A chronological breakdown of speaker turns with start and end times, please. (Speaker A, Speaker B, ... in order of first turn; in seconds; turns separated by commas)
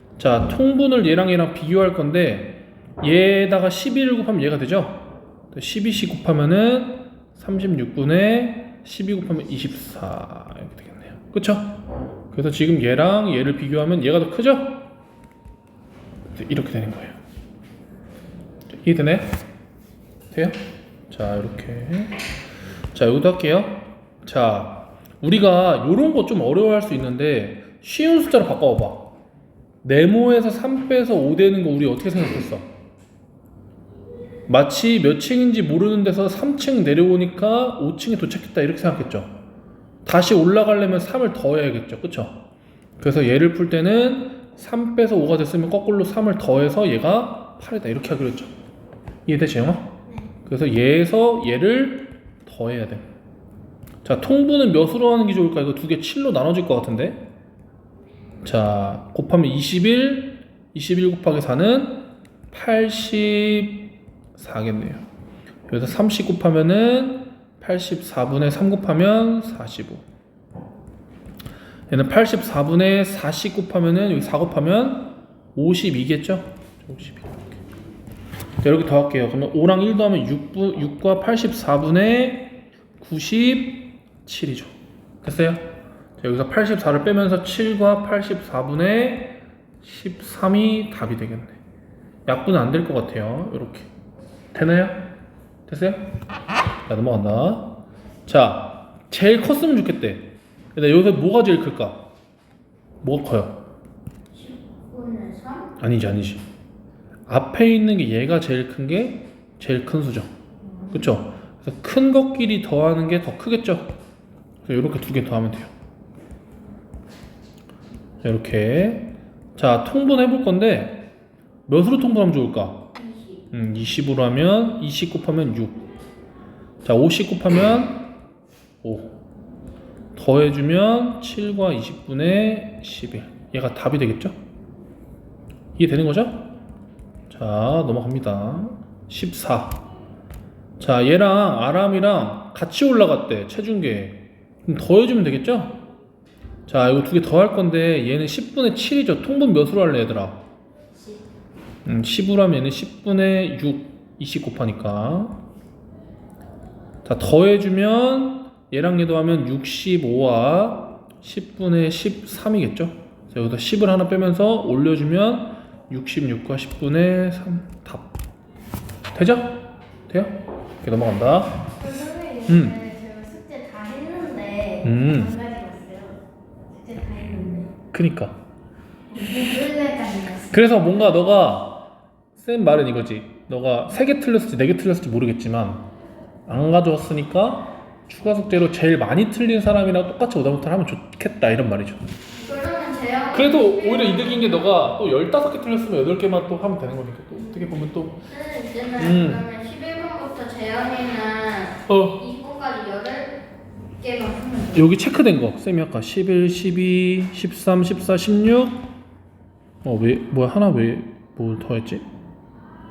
Speaker A: 0.2-14.9, Speaker A: 16.4-17.2, Speaker A: 18.7-19.4, Speaker A: 20.3-22.2, Speaker A: 22.9-29.1, Speaker A: 29.8-32.7, Speaker A: 34.5-39.4, Speaker A: 40.0-42.4, Speaker A: 43.0-48.5, Speaker A: 49.3-53.1, Speaker A: 54.0-57.3, Speaker A: 58.4-65.1, Speaker A: 65.7-70.0, Speaker A: 71.9-77.5, Speaker A: 78.6-91.6, Speaker A: 92.3-93.9, Speaker A: 94.5-95.1, Speaker A: 95.7-96.0, Speaker A: 96.9-102.1, Speaker A: 103.0-103.6, Speaker B: 104.3-105.7, Speaker A: 105.8-106.5, Speaker A: 107.3-110.3, Speaker A: 110.9-114.0, Speaker A: 114.6-115.7, Speaker A: 118.2-121.1, Speaker A: 121.7-122.9, Speaker B: 123.0-123.4, Speaker A: 123.5-125.8, Speaker A: 126.8-128.1, Speaker A: 128.8-129.2, Speaker A: 130.2-134.4, Speaker A: 135.8-136.5, Speaker A: 137.3-139.8, Speaker A: 140.8-145.8, Speaker A: 146.7-150.4, Speaker A: 151.8-155.4, Speaker A: 157.1-168.1, Speaker A: 169.1-171.7, Speaker C: 171.8-177.7, Speaker A: 172.5-172.8, Speaker A: 174.8-175.4, Speaker A: 177.9-178.4, Speaker C: 179.1-180.6, Speaker A: 180.5-185.9, Speaker A: 186.5-192.0, Speaker B: 192.4-194.2, Speaker A: 193.3-198.2, Speaker B: 197.4-197.7, Speaker B: 198.3-203.4, Speaker A: 199.0-199.5, Speaker A: 201.9-202.2, Speaker B: 204.0-204.9, Speaker A: 204.7-208.9, Speaker A: 209.8-212.1